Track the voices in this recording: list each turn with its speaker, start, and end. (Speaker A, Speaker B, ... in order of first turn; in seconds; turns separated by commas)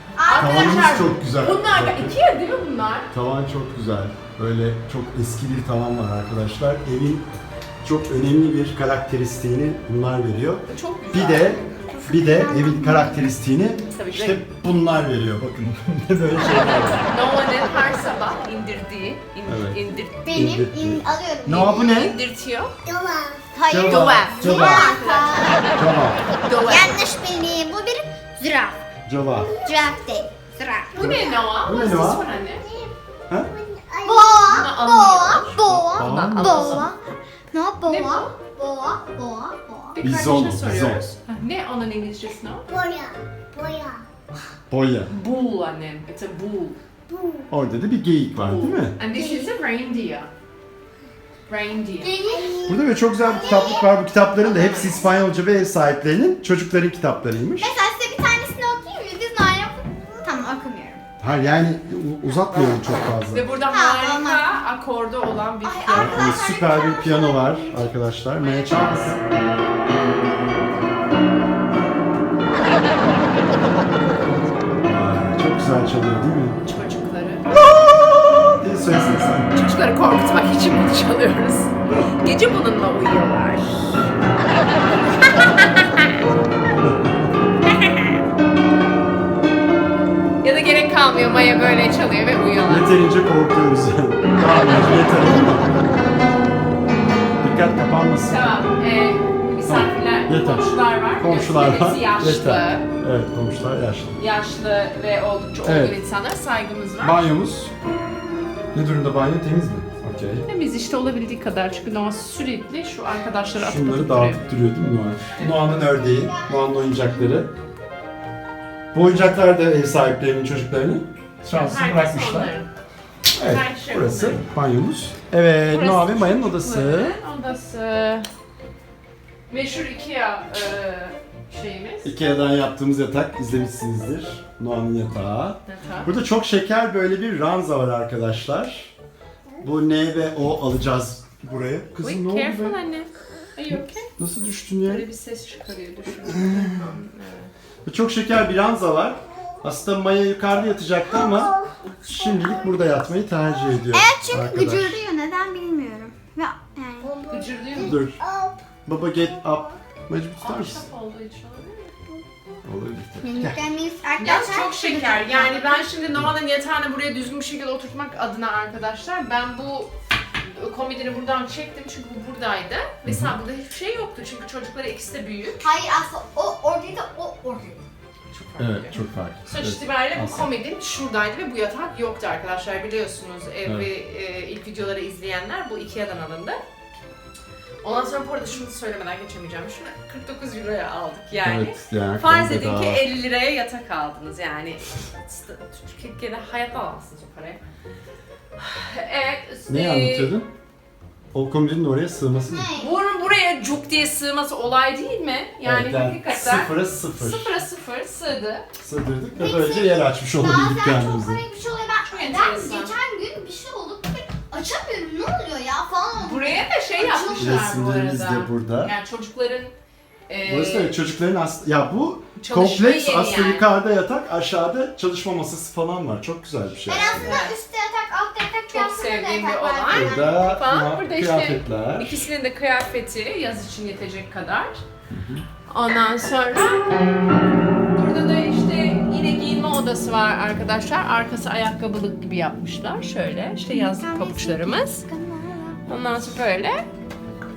Speaker A: 0.2-0.6, Speaker B: 0.2-3.1, Speaker C: 0.3-2.2, Speaker C: 3.1-7.3, Speaker C: 7.8-17.0, Speaker B: 10.7-12.0, Speaker A: 11.9-13.2, Speaker B: 13.9-14.4, Speaker B: 17.1-20.4, Speaker C: 19.4-19.8, Speaker A: 20.2-22.0, Speaker C: 20.3-22.2, Speaker B: 21.9-22.7, Speaker A: 22.9-25.6, Speaker C: 23.7-24.9, Speaker B: 23.8-25.6, Speaker C: 25.8-26.2, Speaker B: 26.4-27.1, Speaker A: 26.6-28.8, Speaker C: 29.1-29.5, Speaker A: 29.6-31.4, Speaker B: 30.9-32.6, Speaker C: 31.0-32.2, Speaker A: 33.6-37.0, Speaker B: 34.1-36.9, Speaker C: 35.6-36.9, Speaker A: 37.5-40.0, Speaker B: 37.8-38.3, Speaker B: 40.0-42.7, Speaker C: 40.0-41.0, Speaker A: 42.7-44.0, Speaker C: 44.7-45.1, Speaker B: 45.1-46.8, Speaker A: 47.1-47.5, Speaker C: 47.5-49.0, Speaker B: 48.4-50.3, Speaker A: 49.1-49.5, Speaker B: 51.5-52.1, Speaker A: 52.0-55.1, Speaker C: 52.7-57.8, Speaker B: 54.5-54.9, Speaker A: 57.6-61.0, Speaker C: 61.2-63.5, Speaker B: 63.3-66.4, Speaker A: 63.7-64.5, Speaker A: 65.6-67.9, Speaker C: 65.9-69.2, Speaker B: 68.4-69.2, Speaker C: 74.8-76.6, Speaker B: 76.6-77.5, Speaker C: 77.6-79.5, Speaker B: 79.5-84.1, Speaker B: 85.1-86.1, Speaker B: 87.7-88.2, Speaker B: 90.4-92.9, Speaker C: 92.7-95.7, Speaker C: 97.4-98.5, Speaker B: 98.2-102.8, Speaker C: 99.7-104.2, Speaker B: 104.2-107.2, Speaker C: 105.6-106.0, Speaker C: 107.0-107.7, Speaker C: 108.7-110.5, Speaker B: 110.5-114.4, Speaker C: 113.6-117.5, Speaker A: 116.3-116.5, Speaker C: 118.9-122.5, Speaker B: 121.5-122.7, Speaker C: 123.3-127.2, Speaker B: 123.4-124.4, Speaker B: 125.7-128.2, Speaker B: 129.5-132.1, Speaker C: 132.0-138.9, Speaker B: 135.7-136.1, Speaker C: 139.6-142.8, Speaker B: 142.0-144.1, Speaker C: 143.7-145.1, Speaker B: 144.8-147.5, Speaker C: 146.2-146.8, Speaker C: 147.8-155.0, Speaker A: 151.2-151.7, Speaker A: 153.9-158.6, Speaker B: 157.3-158.0, Speaker C: 157.8-158.2, Speaker C: 158.9-160.8, Speaker B: 160.4-161.9, Speaker C: 162.6-163.6, Speaker A: 163.2-165.9, Speaker B: 164.2-175.7, Speaker C: 173.1-173.4, Speaker A: 175.6-177.8, Speaker B: 178.3-186.6, Speaker C: 178.6-180.5, Speaker C: 183.6-183.9, Speaker B: 187.8-197.6, Speaker C: 191.4-193.1, Speaker B: 198.6-200.3, Speaker C: 199.7-200.5, Speaker C: 201.3-202.7, Speaker A: 202.5-202.9, Speaker B: 202.8-208.7, Speaker C: 205.6-207.6, Speaker C: 208.8-211.4, Speaker A: 209.3-217.6, Speaker B: 212.1-212.9, Speaker B: 216.2-219.7, Speaker C: 217.3-218.9, Speaker B: 220.3-220.9, Speaker C: 220.4-227.3, Speaker B: 222.4-223.7, Speaker A: 226.8-230.4, Speaker B: 227.2-227.5, Speaker B: 228.7-234.8, Speaker C: 229.9-232.2, Speaker C: 235.1-235.4, Speaker B: 235.7-237.1, Speaker B: 237.9-245.0, Speaker A: 243.7-245.8, Speaker B: 245.9-246.8